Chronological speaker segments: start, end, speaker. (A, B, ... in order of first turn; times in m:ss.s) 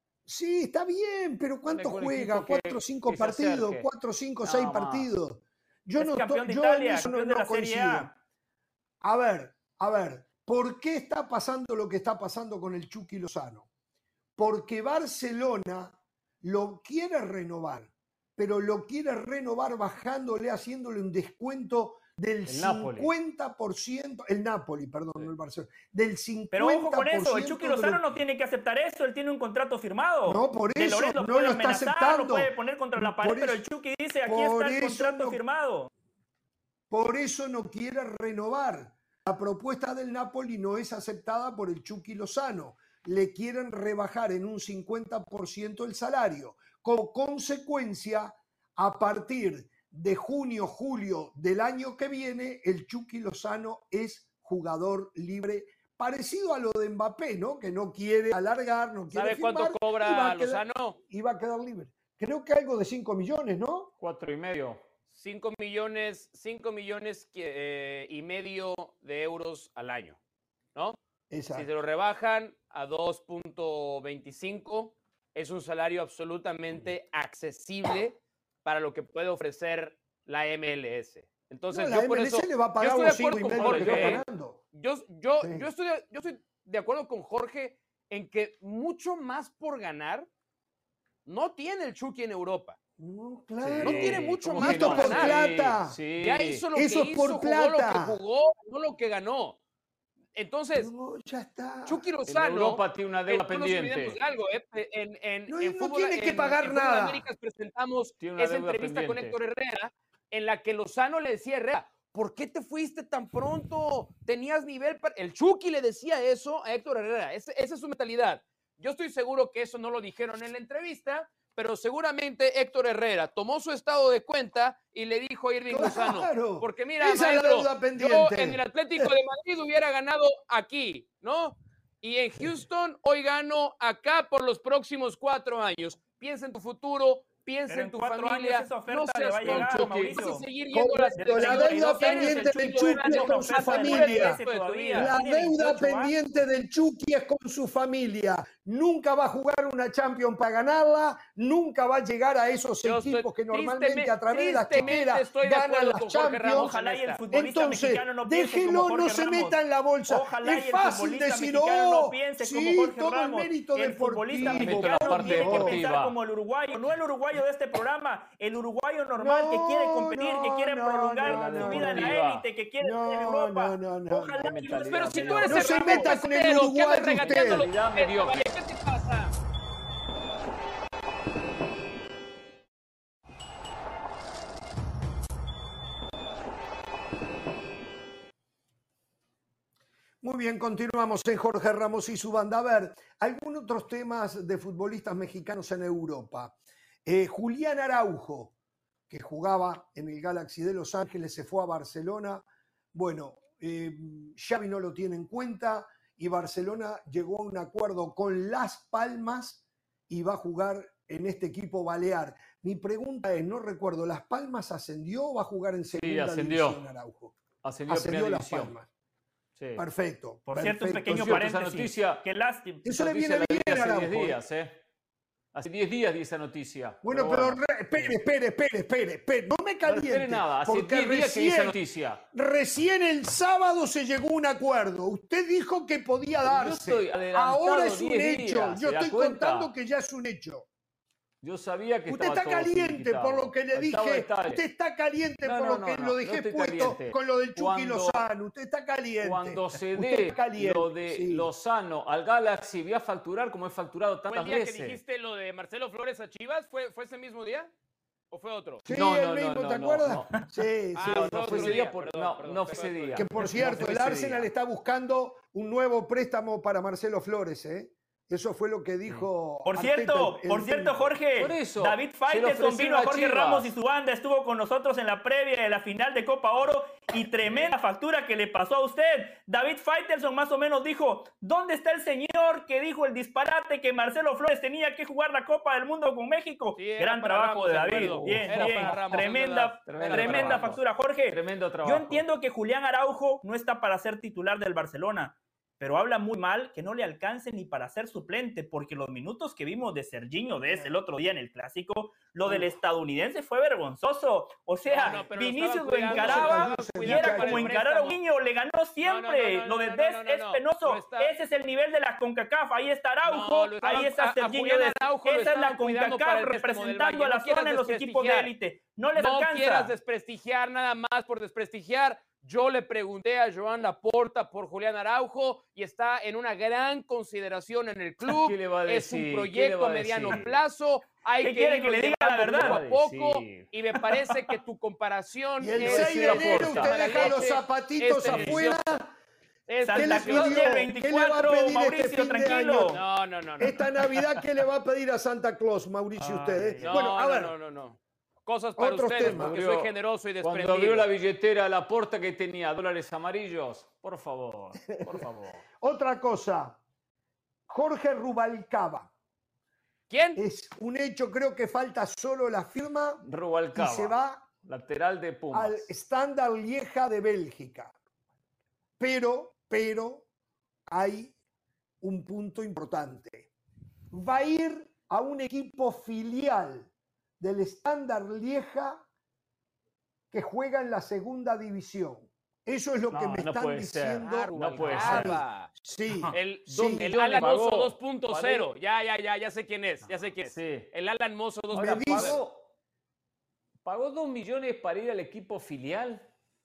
0:00.3-0:08.1 A
0:01.7-0:03.9 B
0:04.4-0:05.1 B
0:06.0-0:08.1 C
0:09.0-0:13.7 A
0:14.4-0:28.0 A
0:22.5-0:23.1 B
0:26.5-0:35.9 C
0:30.3-0:33.6 A
0:34.2-0:35.4 A
0:36.9-1:03.9 A
0:59.1-1:01.0 D
1:04.0-1:04.8 B
1:05.1-1:10.2 D
1:11.3-1:11.7 A
1:11.5-1:30.3 D
1:21.7-1:24.6 A
1:23.5-1:24.2 B
1:25.4-1:25.7 A
1:31.3-1:32.8 D
1:33.0-1:36.0 A
1:33.6-1:36.6 B
1:33.8-1:35.5 D
1:36.2-1:39.6 D
1:36.7-1:38.2 A
1:40.4-1:40.9 D
1:40.7-1:42.0 A
1:41.9-2:25.2 D
1:42.3-1:44.2 B
1:45.5-1:47.3 A
1:48.2-1:49.4 B
2:05.7-2:09.1 A
2:17.7-2:20.5 C
2:19.4-2:20.3 B
2:20.7-2:24.4 A
2:21.2-2:26.2 C
2:24.9-2:36.7 A
2:32.8-2:37.2 D
2:36.5-2:39.6 C
2:37.3-2:45.8 A
2:40.1-2:55.9 C
2:44.4-2:46.2 B
2:49.2-2:52.2 A
2:51.2-2:52.5 B
2:52.8-2:54.6 A
2:54.4-2:56.0 B
2:54.7-2:59.3 D
2:55.5-2:57.7 A
2:57.2-2:58.5 B
3:10.2-3:18.5 A
3:19.1-3:37.4 A
3:36.0-3:36.8 B
3:37.6-3:38.7 B
3:37.9-3:38.9 A
3:39.6-3:39.8 B
3:39.8-3:41.5 A
3:40.5-3:42.8 C
3:41.1-3:42.2 B
3:42.8-3:44.4 A
3:42.9-3:44.8 B
3:45.5-3:48.2 B
3:47.0-3:51.8 A
3:49.8-3:52.2 B
3:52.3-4:00.7 A
3:56.4-3:59.7 B
4:01.4-4:04.6 B
4:02.1-4:11.5 A
4:05.4-4:08.3 B
4:09.2-4:15.0 B
4:14.3-4:17.7 D
4:18.3-4:18.8 D
4:18.8-4:21.8 A
4:18.9-4:20.4 B
4:21.0-4:23.4 D
4:21.0-4:24.5 B
4:23.2-4:31.1 A
4:29.7-5:19.9 C
4:31.4-4:33.7 B
4:37.5-4:37.7 D
4:46.8-4:50.7 D
4:48.2-4:49.3 B
4:49.9-4:52.3 B
5:02.4-5:02.7 A
5:04.9-5:08.2 D
5:06.1-5:07.8 A
5:09.0-5:11.4 D
5:13.2-5:18.5 D
5:19.2-5:39.0 D
5:28.3-5:30.6 B
5:31.4-5:32.8 C
5:32.5-5:33.7 B
5:34.1-5:34.5 C
5:35.6-5:39.1 A
5:35.8-5:37.3 B
5:39.7-5:40.9 D
5:39.8-5:43.0 C
5:39.9-5:43.0 A
5:42.9-5:43.8 D
5:43.6-5:47.6 A
5:46.2-5:47.1 B
5:46.8-5:51.1 D
5:48.8-5:49.5 A
5:49.2-5:49.9 B
5:50.4-5:55.6 B
5:54.9-5:55.2 A
5:55.8-5:56.8 A
5:57.7-5:59.1 A
6:00.1-6:00.4 D
6:00.4-6:04.4 A
6:03.2-6:05.9 B
6:05.5-6:08.0 A
6:09.0-6:10.3 A
6:10.9-6:11.4 A
6:12.0-6:13.5 A
6:14.1-6:19.1 A
6:20.3-6:27.1 A
6:23.1-6:25.4 B
6:24.2-6:25.7 D
6:26.2-6:28.7 B
6:26.3-6:32.4 D
6:30.5-6:30.9 B
6:31.7-6:32.6 B
6:31.8-6:32.4 A
6:33.8-6:36.2 B